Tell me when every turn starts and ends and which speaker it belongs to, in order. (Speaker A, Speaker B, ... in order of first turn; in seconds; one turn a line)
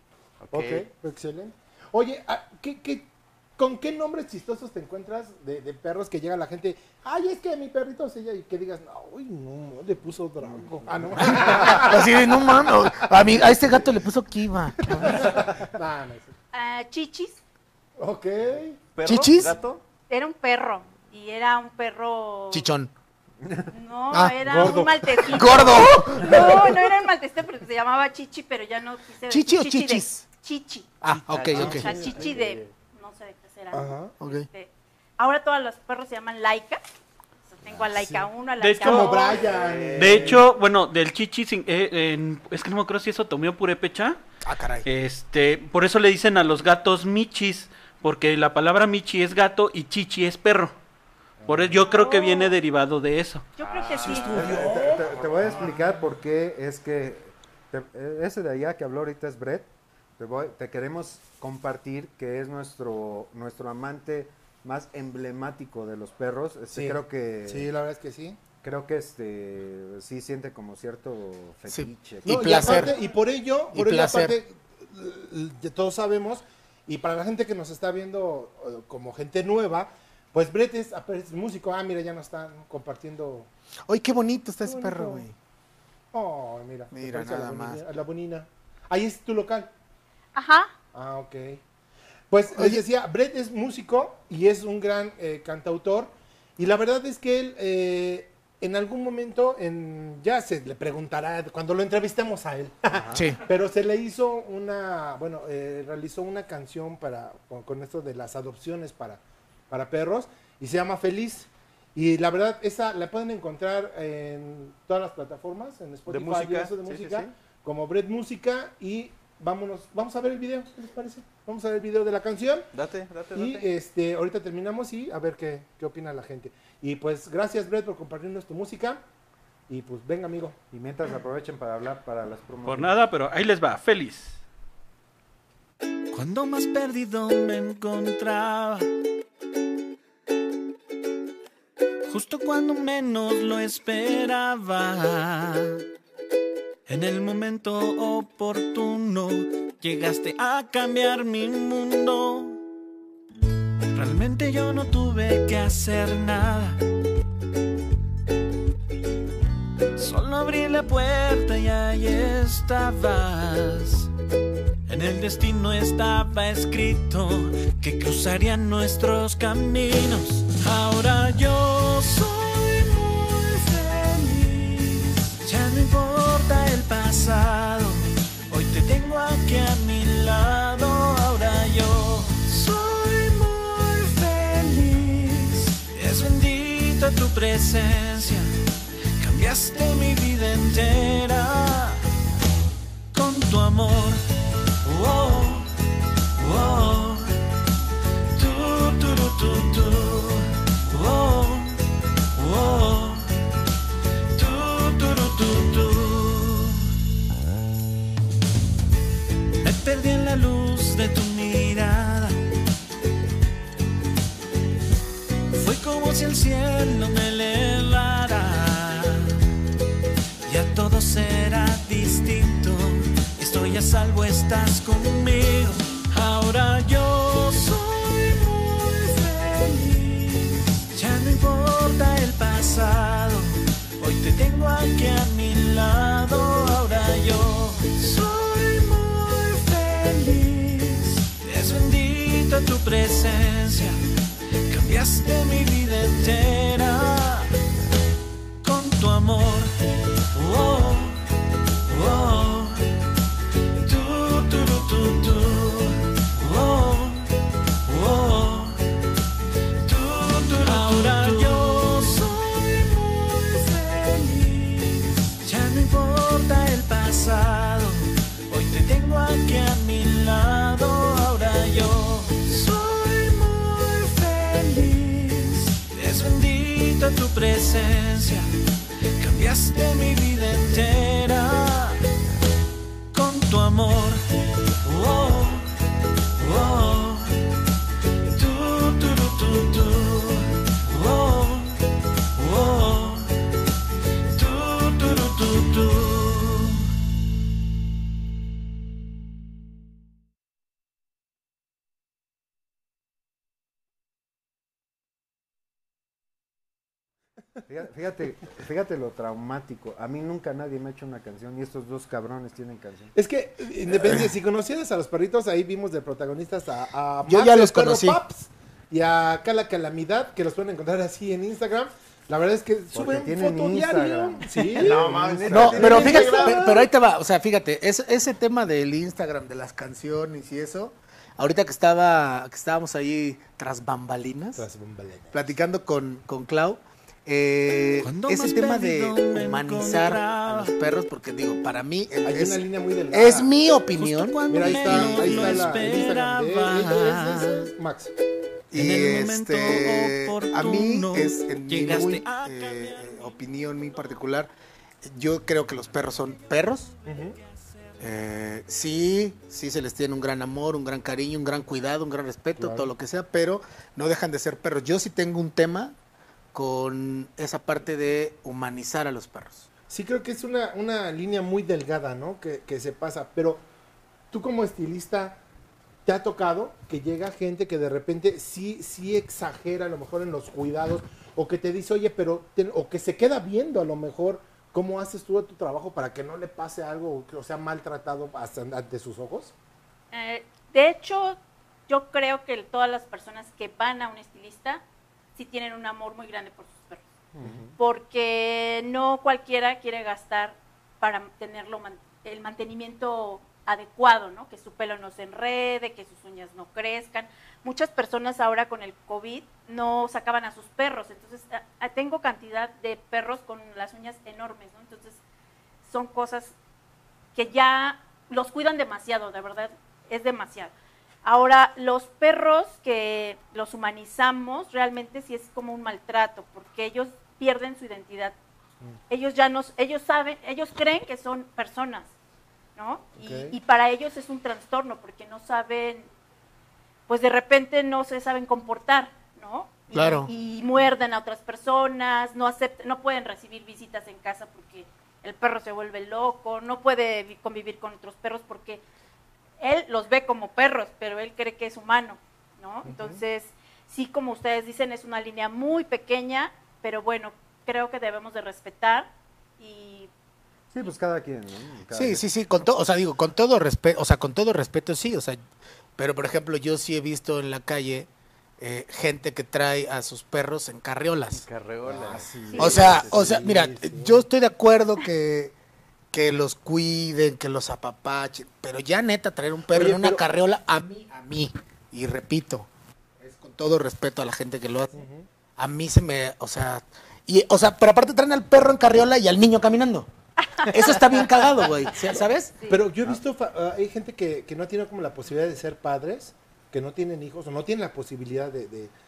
Speaker A: 0.4-0.9
Speaker B: 0.5-12.2
Speaker C: 11.3-15.2
Speaker B: 14.9-16.3
Speaker D: 16.5-17.4
Speaker B: 18.0-18.8
Speaker A: 18.9-19.8
Speaker C: 19.1-19.5
Speaker D: 20.1-22.7
Speaker C: 22.5-22.9
Speaker D: 23.7-31.0
Speaker C: 24.1-26.5
Speaker B: 24.4-25.6
Speaker B: 26.2-26.5
Speaker C: 29.3-30.2
Speaker C: 31.0-31.9
Speaker A: 31.3-32.6
Speaker B: 31.5-32.6
Speaker D: 31.6-36.8
Speaker B: 33.7-34.2
Speaker C: 34.2-34.5
Speaker D: 37.5-39.5
Speaker B: 37.9-38.3
Speaker E: 38.6-39.3
Speaker B: 38.8-40.5
Speaker A: 39.4-40.4
Speaker E: 39.9-44.2
Speaker C: 44.5-44.9
Speaker E: 44.9-50.8
Speaker B: 51.4-51.8
Speaker E: 51.5-53.5
Speaker D: 51.8-52.5
Speaker D: 53.6-54.5
Speaker A: 53.6-54.6
Speaker B: 54.0-56.0
Speaker F: 54.2-59.7
Speaker F: 60.2-67.7
Speaker B: 66.7-68.4
Speaker F: 68.6-73.0
Speaker C: 71.7-72.9
Speaker B: 72.2-83.5
Speaker C: 73.7-74.4
Speaker C: 83.9-85.3
Speaker B: 84.6-85.3
Speaker B: 86.1-89.7
Speaker C: 86.9-87.8
Speaker D: 90.3-90.7
Speaker B: 90.9-91.6
Speaker B: 92.3-122.7
Speaker C: 92.5-92.8
Speaker C: 103.1-103.4
Speaker A: 116.1-117.3
Speaker A: 122.7-123.7
Speaker B: 123.3-129.0
Speaker B: 129.7-130.6
Speaker F: 130.7-132.9
Speaker E: 132.6-134.4
Speaker G: 136.1-138.9
Speaker G: 142.1-145.8
Speaker G: 146.9-152.6
Speaker G: 153.9-156.8
Speaker G: 160.0-164.1
Speaker G: 164.9-188.5
Speaker G: 189.2-192.0
Speaker G: 193.1-194.2
Speaker G: 194.8-195.7
Speaker G: 196.4-197.4
Speaker G: 198.3-201.8
Speaker G: 202.3-203.3
Speaker G: 204.3-206.8
Speaker G: 209.6-212.4
Speaker G: 215.5-219.4
Speaker G: 220.5-244.0
Speaker G: 244.7-247.5
Speaker G: 248.6-249.8
Speaker G: 250.3-251.2
Speaker G: 251.9-252.9
Speaker G: 253.8-257.3
Speaker G: 257.9-258.8
Speaker G: 259.8-278.5
Speaker E: 260.6-262.2
Speaker G: 279.2-282.0
Speaker G: 283.1-284.2
Speaker G: 284.8-285.7
Speaker G: 286.4-287.4
Speaker G: 288.3-291.8
Speaker G: 292.4-293.3
Speaker G: 294.3-296.8
Speaker F: 307.7-313.1
Speaker B: 313.1-326.9
Speaker C: 317.3-318.2
Speaker F: 322.9-326.6
Speaker C: 325.5-334.6
Speaker B: 334.6-335.4
Speaker C: 335.3-345.8
Speaker G: 338.0-340.8
Speaker B: 342.2-343.5
Speaker G: 344.0-347.7
Speaker B: 344.5-348.1
Speaker C: 348.7-354.5
Speaker G: 348.8-353.3
Speaker C: 355.1-356.9
Speaker B: 357.1-357.4
Speaker C: 358.0-365.9
Speaker B: 362.6-362.9
Speaker C: 366.5-369.7
Speaker B: 369.9-373.6
Speaker B: 374.3-375.4
Speaker B: 376.1-389.5
Speaker D: 390.1-394.8
Speaker D: 395.4-397.1
Speaker F: 397.4-397.7
Speaker D: 397.8-415.2
Speaker D: 415.8-416.6
Speaker D: 417.4-420.7
Speaker D: 421.2-428.4
Speaker D: 429.1-432.1
Speaker D: 432.8-436.1
Speaker B: 433.2-433.6
Speaker D: 437.1-448.8
Speaker C: 439.9-440.3
Speaker D: 449.6-460.1
Speaker F: 452.9-453.2
Speaker F: 460.7-462.2
Speaker C: 461.9-465.4
Speaker C: 466.0-468.1
Speaker C: 468.6-471.4
Speaker A: 471.3-473.2
Speaker B: 471.9-474.2
Speaker C: 472.6-475.5
Speaker C: 476.1-482.7
Speaker B: 479.7-480.2
Speaker C: 483.2-485.0
Speaker B: 484.9-485.3
Speaker C: 485.6-490.1
Speaker D: 490.4-491.2
Speaker C: 490.7-492.6
Speaker D: 492.6-492.9
Speaker B: 492.7-498.9